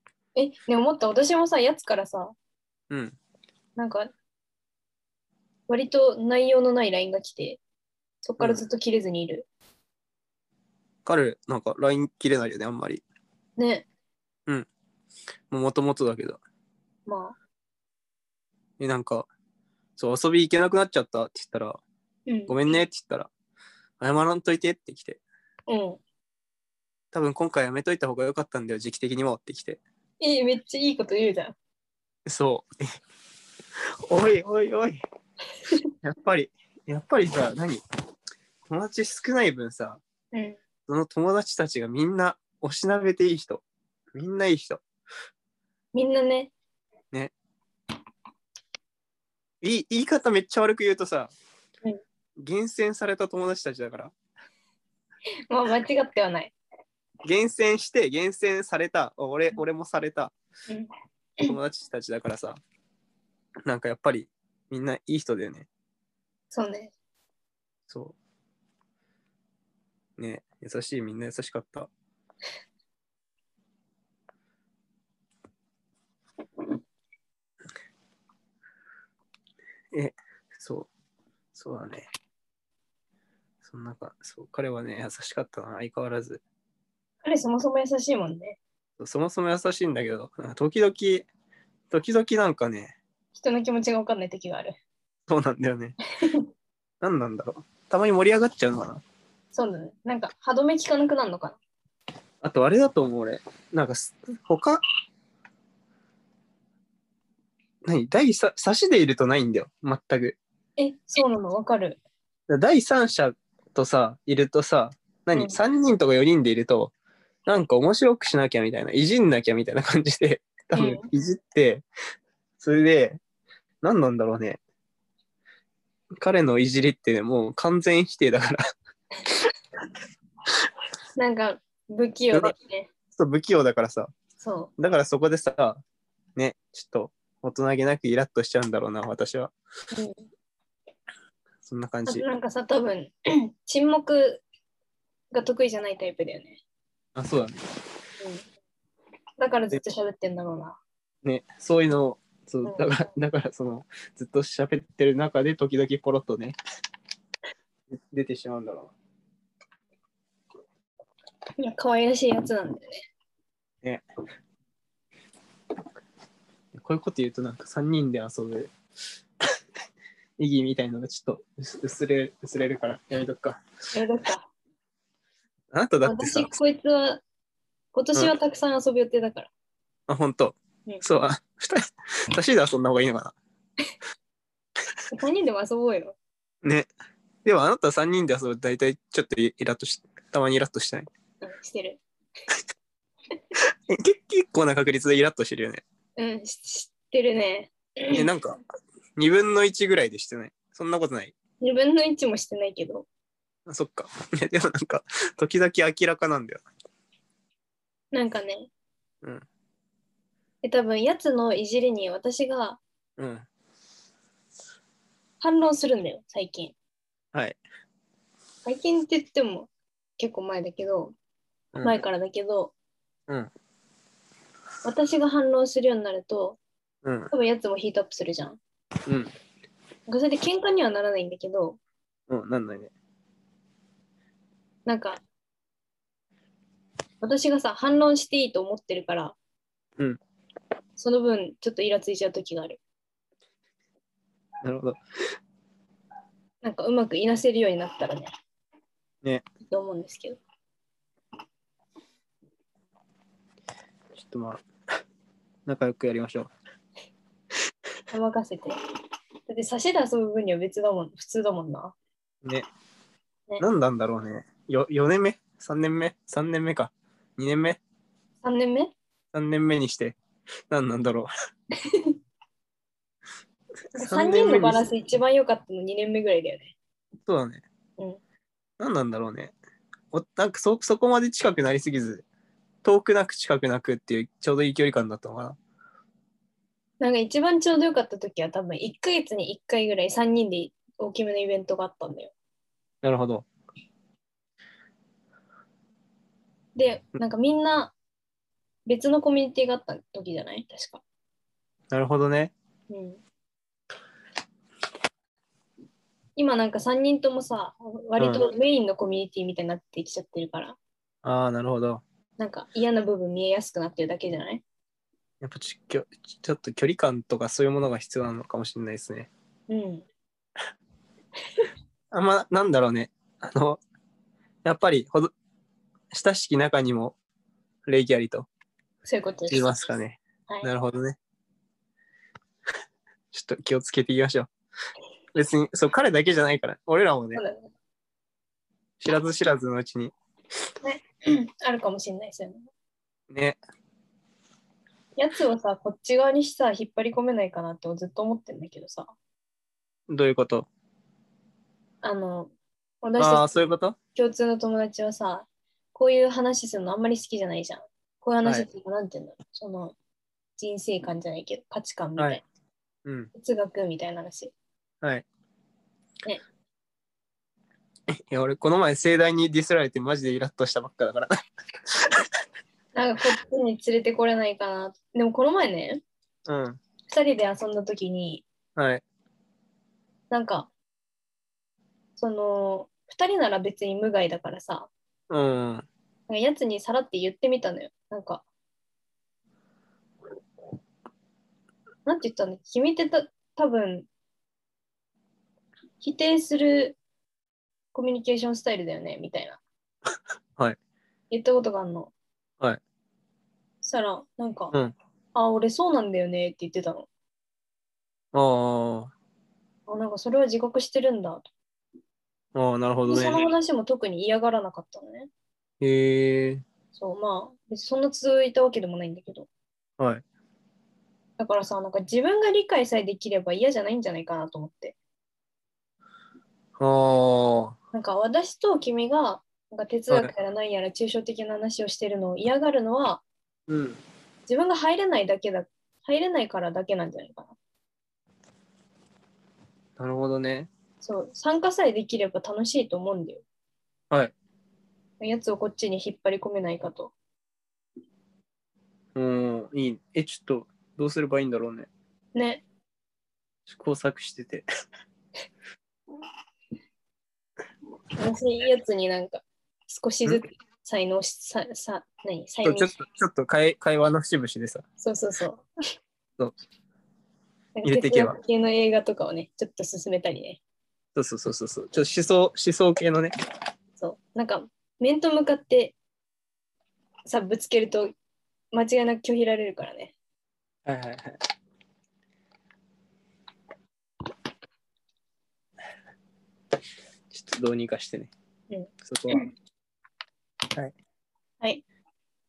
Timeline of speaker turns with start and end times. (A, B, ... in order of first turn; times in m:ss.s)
0:00.4-0:02.4 A
0:02.9-0:03.2 B
0:03.8-0:04.1 A
0:05.7-0:07.6 A
0:08.2-0:09.5 A
0:11.0-0:13.0 B
0:13.6-0:13.9 A
0:15.5-0:16.4 B
0:17.1-0:17.4 A
0:18.8-0:19.3 B
0:20.0-0:21.8 B
0:22.3-0:22.6 A
0:22.5-0:23.3 B
0:24.0-0:25.2 B
0:25.7-0:26.0 A
0:27.1-0:29.8 B
0:30.2-0:31.6 A
0:32.3-0:32.8 B
0:34.1-0:35.0 B
0:36.0-0:37.8 B
0:38.7-0:40.0 B
0:40.3-0:40.6 A
0:40.9-0:43.6 B
0:44.1-0:44.8 B
0:45.9-0:46.5 A
0:49.6-0:51.3 B
0:52.4-0:54.1 B
0:55.5-0:56.6 A
0:57.2-1:00.3 B
1:01.4-1:02.6 B
1:03.6-1:05.7 B
1:06.5-1:06.9 A
1:07.9-1:08.2 B
1:10.2-1:11.9 B
1:19.9-1:20.9 B
1:21.5-1:22.1 B
1:23.6-1:26.4 B
1:27.2-1:28.6 A
1:29.0-1:31.3 B
1:31.9-1:33.0 B
1:33.3-1:34.8 A
1:35.3-1:36.0 B
1:37.0-1:39.0 B
1:39.5-1:41.6 A
1:42.4-1:44.8 B
1:47.8-1:50.4 B
1:50.8-1:52.0 A
1:52.5-1:56.9 B
1:55.3-1:55.6 A
1:57.4-2:01.8 B
2:00.8-2:01.1 A
2:02.6-2:03.2 B
2:03.8-2:04.6 B
2:06.2-2:08.6 B
2:11.2-2:12.9 A
2:13.1-2:14.1 B
2:14.4-2:14.7 A
2:14.8-2:15.8 B
2:16.4-2:19.5 B
2:19.9-2:20.3 A
2:21.6-2:22.2 B
2:22.1-2:23.1 A
2:23.6-2:24.4 A
2:25.3-2:26.6 A
2:27.1-2:27.6 B
2:29.4-2:30.8 A
2:31.2-2:36.6 B
2:37.9-2:38.9 B
2:41.6-2:43.0 A
2:46.7-2:48.7 B
2:50.4-2:53.6 B
2:53.9-2:54.5 A
2:55.7-2:56.5 B
2:56.0-2:57.2 A
2:57.9-2:59.5 A
3:00.1-3:03.4 B
3:05.1-3:06.2 A
3:06.6-3:06.9 B
3:07.4-3:11.1 B
3:11.4-3:12.0 A
3:13.7-3:15.8 B
3:16.2-3:18.3 A
3:18.1-3:18.6 B
3:19.2-3:21.4 B
3:21.6-3:23.1 A
3:23.7-3:26.6 B
3:28.1-3:28.7 A
3:30.6-3:32.8 A
3:33.2-3:33.5 B
3:35.4-3:36.8 A
3:38.6-3:41.1 A
3:41.7-3:42.0 B
3:41.8-3:42.7 A
3:44.8-3:46.6 A
3:47.0-3:47.3 B
3:47.3-3:48.6 A
3:50.1-3:51.8 A
3:52.3-3:52.9 B
3:54.9-3:55.2 A
3:57.2-3:59.4 A
4:01.0-4:02.8 A
4:04.6-4:05.0 B
4:06.6-4:08.3 A
4:09.6-4:10.4 A
4:14.1-4:14.6 B
4:15.6-4:16.5 B
4:18.1-4:18.8 A
4:19.5-4:21.9 A
4:23.6-4:27.8 B
4:28.4-4:28.9 A
4:29.3-4:30.2 B
4:30.7-4:31.3 B
4:31.8-4:32.1 A
4:33.9-4:34.9 B
4:33.9-4:36.8 A
4:37.3-4:37.6 B
4:38.8-4:39.5 B
4:40.1-4:42.2 B
4:42.8-4:45.6 B
4:47.0-4:52.3 A
4:53.0-4:53.5 B
4:56.8-4:57.9 A
4:58.9-5:01.0 A
5:01.9-5:02.5 B
5:02.9-5:03.2 A
5:06.4-5:10.8 A
5:08.2-5:08.4 B
5:11.2-5:12.0 B
5:12.4-5:14.6 A
5:15.4-5:19.3 B
5:19.7-5:20.1 A
5:22.1-5:23.8 B
5:24.6-5:25.3 B
5:26.1-5:27.2 B
5:27.9-5:28.5 B
5:29.0-5:29.6 A
5:29.5-5:31.2 B
5:33.3-5:34.5 B
5:35.3-5:37.4 B
5:37.4-5:37.6 A
5:39.0-5:40.1 B
5:40.8-5:42.7 A
5:43.3-5:43.6 B
5:45.2-5:49.1 A
5:50.1-5:50.7 B
5:52.0-5:53.5 A
5:53.2-5:54.0 B
5:54.1-5:59.9 A
6:00.6-6:02.4 A
6:03.0-6:03.3 B
6:03.4-6:04.5 A
6:08.3-6:11.4 B
6:11.9-6:12.3 B
6:12.9-6:16.0 A
6:16.4-6:16.8 B
6:17.1-6:18.4 A
6:18.8-6:19.0 B
6:20.3-6:20.7 A
6:22.2-6:24.9 A
6:25.3-6:25.9 B
6:26.3-6:28.4 A
6:32.0-6:34.1 A
6:36.0-6:37.0 A
6:37.9-6:39.6 A
6:41.3-6:42.1 A
6:43.8-6:44.7 A
6:45.4-6:47.1 A
6:48.3-6:49.1 B
6:49.9-6:51.5 A
6:52.6-6:53.4 B
6:53.1-6:55.3 A
6:55.8-6:56.6 B
6:56.9-6:59.5 A
7:00.0-7:00.2 B
7:01.4-7:05.0 A
7:06.8-7:07.8 B
7:07.9-7:13.2 A
7:13.7-7:14.0 B
7:14.5-7:17.6 A
7:20.0-7:20.7 B
7:21.0-7:23.4 A
7:25.2-7:27.1 A
7:29.1-7:31.9 B
7:32.4-7:32.6 A
7:33.7-7:34.6 B
7:38.2-7:42.9 A
7:42.6-7:44.8 B
7:45.0-7:45.6 A
7:47.8-7:50.6 A
7:47.8-7:48.4 B
7:51.1-7:53.3 B
7:54.0-7:55.9 A
7:57.3-7:58.1 A
7:58.7-8:00.1 A
8:00.9-8:01.4 B
8:07.3-8:08.3 B
8:08.7-8:09.5 A
8:09.0-8:09.5 B